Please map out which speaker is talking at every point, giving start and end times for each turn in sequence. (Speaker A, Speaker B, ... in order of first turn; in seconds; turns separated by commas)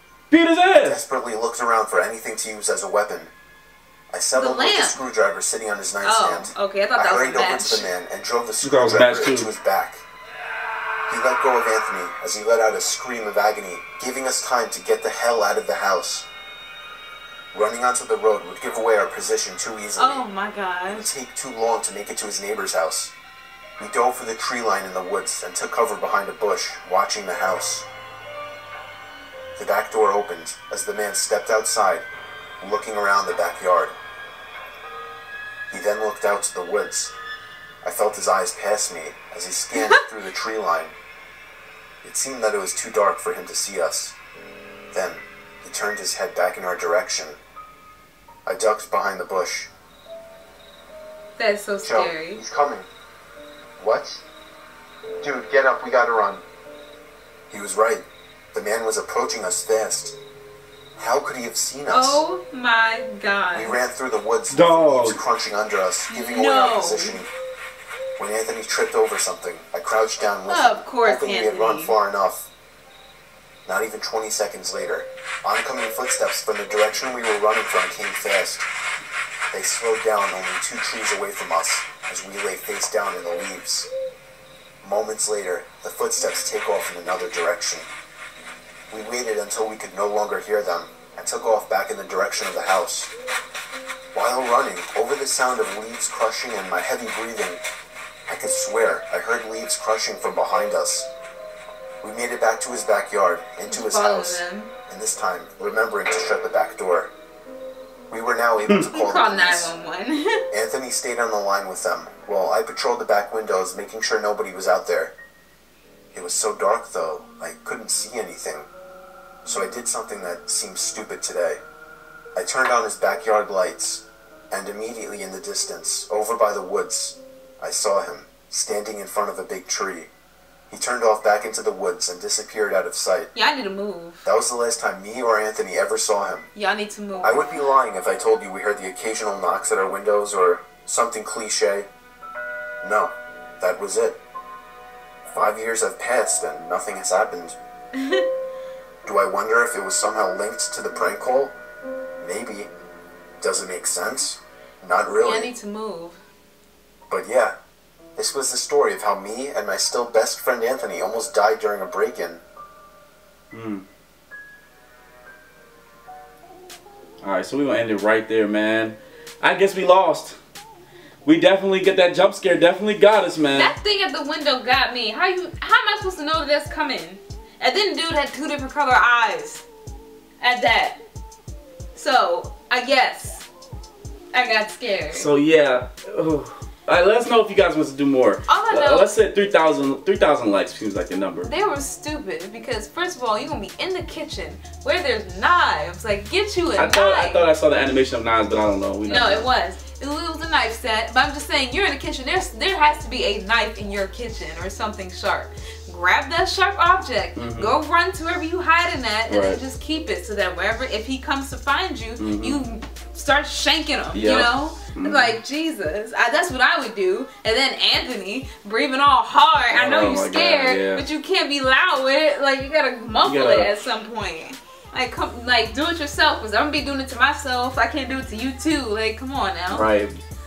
Speaker A: 0.3-1.0, Speaker B: 0.8-3.3, Speaker B: 4.1-10.0, Speaker C: 4.3-5.0, Speaker C: 6.0-7.9, Speaker A: 8.6-9.5, Speaker B: 11.1-16.3, Speaker B: 17.5-20.2, Speaker C: 19.9-21.1, Speaker B: 20.9-23.1, Speaker B: 23.8-27.9, Speaker B: 29.6-32.1, Speaker B: 32.6-33.9, Speaker B: 35.7-37.1, Speaker B: 37.8-40.9, Speaker B: 42.0-44.1, Speaker B: 44.9-47.4, Speaker B: 48.5-49.7, Speaker C: 51.4-52.4, Speaker B: 51.8-52.9, Speaker B: 53.8-54.2, Speaker B: 55.2-56.4, Speaker B: 57.5-60.1, Speaker B: 61.0-62.2, Speaker C: 61.9-63.8, Speaker B: 63.5-67.3, Speaker A: 64.5-65.2, Speaker C: 66.1-67.2, Speaker B: 68.2-72.5, Speaker C: 70.5-71.9, Speaker B: 73.7-78.7, Speaker B: 79.5-83.9, Speaker B: 84.8-87.9, Speaker B: 88.9-93.1, Speaker B: 94.1-97.6, Speaker B: 98.3-101.1, Speaker B: 102.0-107.1, Speaker C: 103.6-104.7, Speaker B: 108.1-109.7, Speaker A: 108.7-108.9, Speaker C: 108.8-110.4, Speaker B: 110.5-115.1, Speaker B: 116.1-118.7, Speaker B: 119.4-121.6, Speaker B: 122.3-130.1, Speaker B: 130.7-133.3, Speaker C: 133.3-134.3, Speaker B: 134.2-136.5, Speaker C: 136.5-137.7, Speaker B: 137.2-141.9, Speaker B: 142.8-144.2, Speaker B: 145.2-147.6, Speaker B: 149.0-151.6, Speaker B: 152.2-152.7, Speaker B: 153.4-155.5, Speaker C: 155.2-156.2, Speaker B: 157.1-157.6, Speaker B: 158.2-162.4, Speaker A: 163.5-163.8, Speaker A: 167.2-170.4, Speaker A: 171.2-173.7, Speaker C: 173.5-179.6, Speaker C: 180.4-181.0, Speaker C: 181.9-183.4, Speaker C: 184.3-185.3, Speaker A: 185.1-191.5, Speaker C: 188.5-189.1, Speaker C: 191.4-197.5, Speaker A: 196.8-199.5, Speaker C: 199.0-229.9, Speaker A: 207.3-207.7, Speaker A: 209.3-209.6, Speaker A: 212.2-212.6, Speaker A: 214.1-215.4, Speaker A: 219.7-221.0, Speaker A: 223.2-223.7, Speaker A: 229.7-230.2